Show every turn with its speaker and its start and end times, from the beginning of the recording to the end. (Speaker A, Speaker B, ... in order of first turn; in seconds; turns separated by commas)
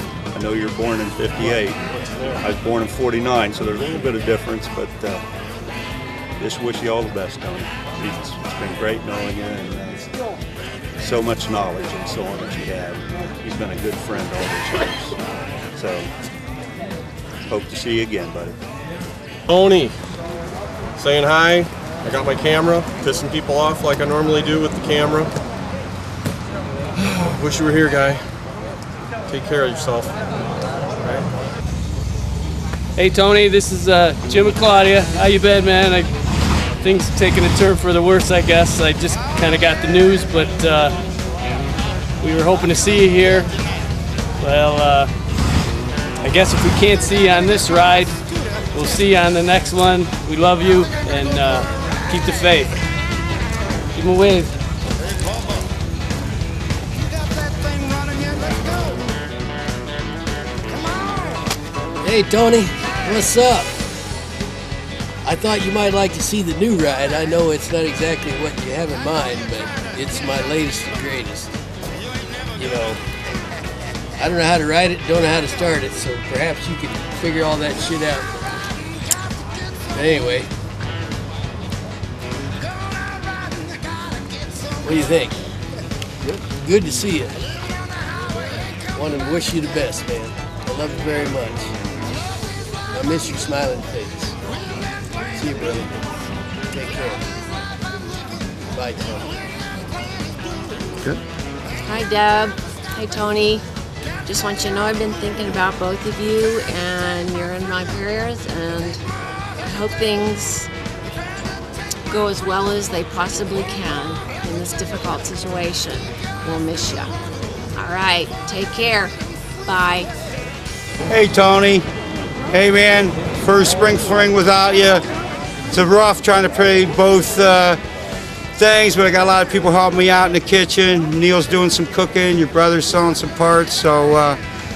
Speaker A: 0.3-5.2, Speaker A: 6.4-10.1, Speaker A: 11.0-15.2, Speaker A: 15.8-16.1, Speaker A: 17.5-18.6, Speaker B: 19.5-19.9, Speaker B: 21.0-25.3, Speaker B: 27.0-28.2, Speaker B: 29.3-30.1, Speaker C: 33.0-36.1, Speaker C: 36.8-41.0, Speaker C: 42.2-43.6, Speaker C: 44.4-45.1, Speaker C: 46.2-48.2, Speaker C: 48.7-52.8, Speaker C: 54.0-54.5, Speaker D: 62.0-63.7, Speaker D: 65.2-71.5, Speaker D: 72.6-73.1, Speaker D: 74.2-78.3, Speaker D: 80.0-80.5, Speaker D: 84.8-85.3, Speaker D: 86.6-87.3, Speaker D: 89.0-91.7, Speaker D: 93.0-94.3, Speaker D: 95.4-96.0, Speaker D: 96.7-97.2, Speaker D: 98.7-99.4, Speaker E: 101.7-103.7, Speaker E: 104.2-109.0, Speaker E: 109.6-110.7, Speaker E: 112.1-117.1, Speaker E: 117.7-119.1, Speaker E: 119.7-120.1, Speaker F: 121.1-121.9, Speaker F: 122.5-125.0, Speaker F: 125.7-127.8, Speaker F: 128.6-134.4